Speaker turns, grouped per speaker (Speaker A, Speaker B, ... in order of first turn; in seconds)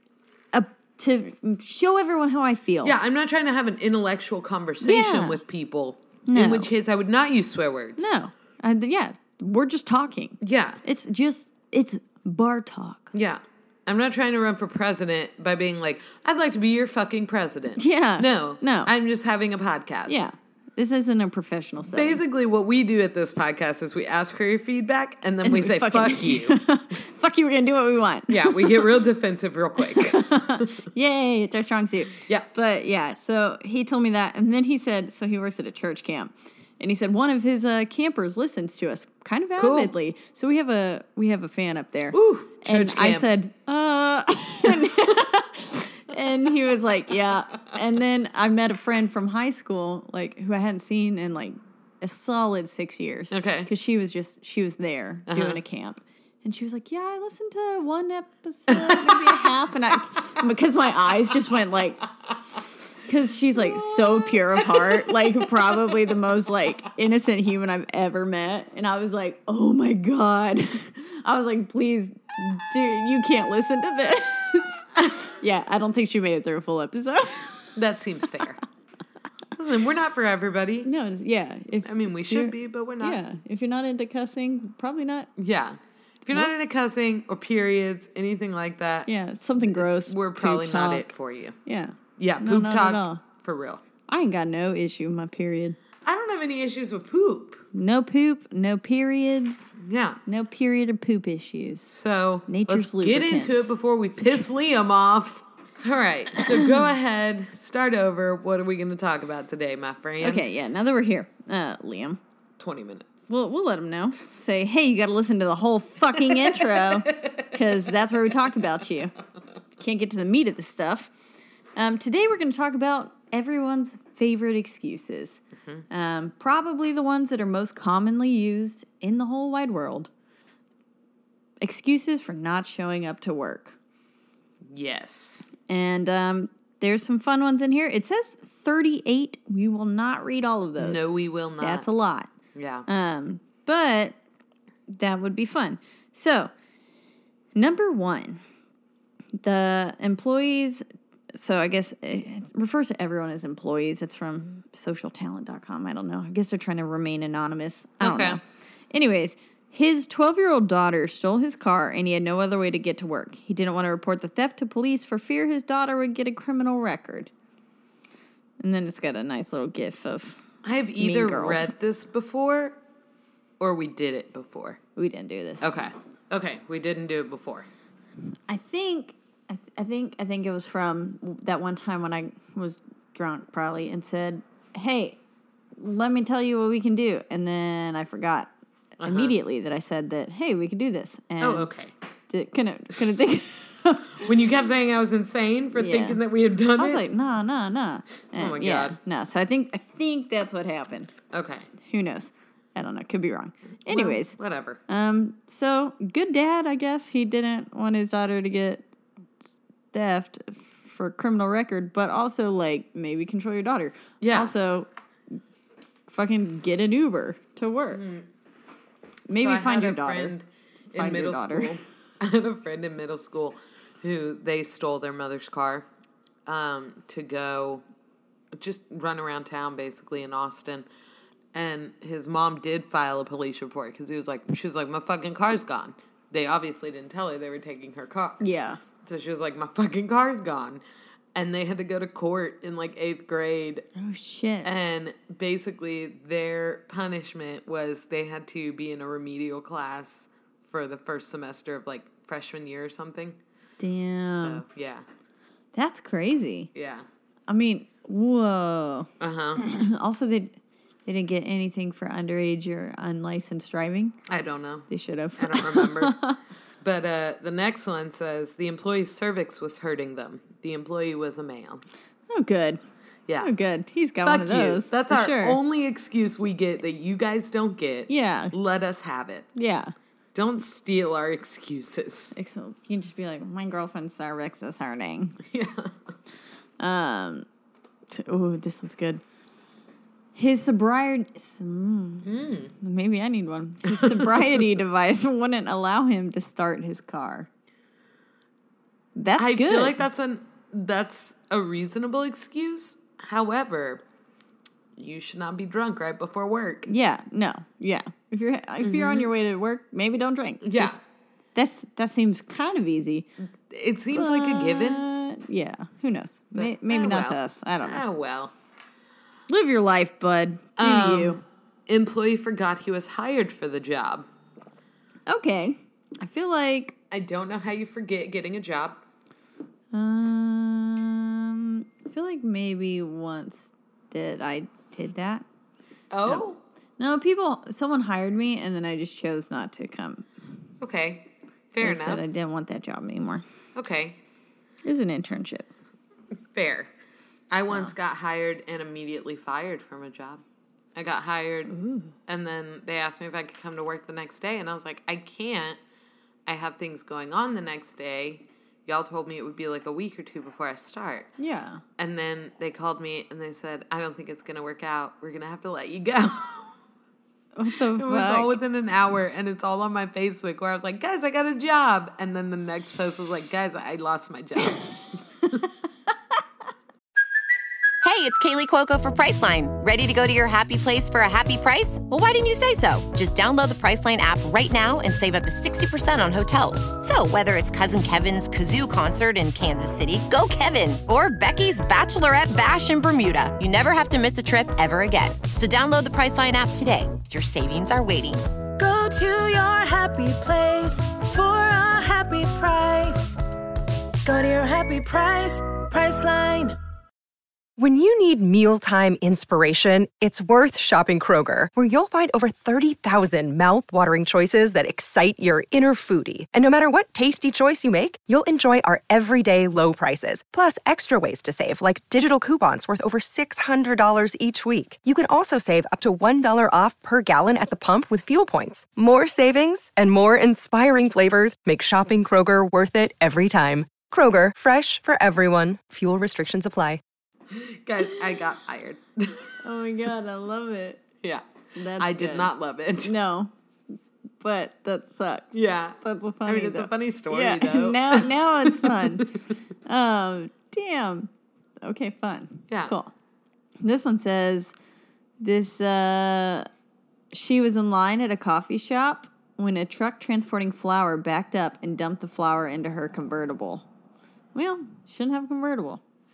Speaker A: 0.5-3.0, 4.8-5.4, 6.3-6.7, 8.0-13.1, 17.8-18.9, 20.1-22.2, 25.4-28.9, 29.8-62.0, 63.0-77.8, 80.8-85.3, 89.1-91.1, 91.7-93.2, 94.1-95.8, 97.7-99.7, 100.2-101.9, 102.5-103.7, 110.2-112.2, 113.3-119.1, 119.8-121.1, 121.8-130.1, 131.6-133.8, 135.7-142.3, 142.9-144.2, 144.9-146.5, 147.5-148.4, 149.4-150.8, 151.3-167.3, 168.6-170.4, 171.0-171.7, 174.9-175.7, 178.5-185.2, 185.8-188.5, 189.0-191.7, 192.3-194.3, 195.7-196.2, 196.8-201.1, 201.8-204.3, 204.9-208.8, 209.9-214.9, 216.1-218.0, 219.3-220.3, 220.9-221.8, 238.4-238.8, 243.9-244.7, 253.8-254.6, 255.7-256.7, 257.5-264.1, 264.9-266.4, 272.3-272.8, 273.4-275.6, 278.1-278.5, 279.5-279.9, 282.3-285.4, 286.8-287.4, 288.1-289.2, 290.3-297.5, 299.1-300.0, 306.9-311.0, 311.5-313.3, 314.1-318.0, 319.5-321.4, 325.3-326.9, 329.9-335.4, 337.0-340.2, 341.8-343.4, 344.8-345.7, 347.6-347.9, 351.7-352.1, 361.4-361.8, 367.5-368.6, 439.6-441.0, 441.7-443.5, 444.4-449.3, 449.9-451.3, 451.8-453.1, 453.8-454.7, 455.4-456.7, 457.3-463.9, 464.5-466.0
Speaker B: 2.8-8.1, 10.4-10.8, 13.1-20.2, 21.9-26.6, 28.3-30.7, 39.6-39.9, 42.1-43.3, 44.6-45.2, 53.3-53.7, 55.3-55.6, 58.7-59.5, 63.5-66.2, 77.8-78.6, 79.5-80.9, 81.8-83.2, 85.4-89.1, 89.6-91.6, 92.2-93.8, 96.0-97.6, 99.8-100.2, 101.9-110.5, 112.6-113.1, 116.1-117.8, 134.7-135.5, 140.8-141.8, 142.5-142.8, 158.0-158.4, 170.6-172.8, 173.6-174.8, 175.6-177.7, 189.0-189.3, 191.4-191.9, 194.2-197.0, 198.3-199.0, 201.3-201.7, 203.8-204.8, 214.2-214.5, 217.9-218.3, 219.3-225.9, 226.5-227.8, 228.5-230.9, 231.5-238.4, 239.0-240.8, 241.3-243.8, 244.6-253.4, 254.3-255.0, 256.7-257.1, 259.2-259.6, 264.3-266.2, 266.8-271.8, 274.2-279.5, 280.3-282.3, 285.4-285.9, 292.2-292.7, 293.9-294.6, 299.4-304.0, 304.9-306.9, 308.8-309.3, 310.6-311.0, 313.7-315.1, 316.5-318.5, 320.8-324.3, 327.1-329.0, 336.1-336.6, 340.8-342.2, 343.7-344.2, 346.5-346.9, 347.5-350.4, 350.9-351.7, 352.2-355.8, 356.4-361.3, 362.0-366.7, 367.7-374.9, 437.5-439.5, 441.2-443.2, 445.5-449.4
Speaker C: 378.0-398.4
Speaker D: 398.8-403.4, 404.2-406.8
Speaker E: 407.8-437.0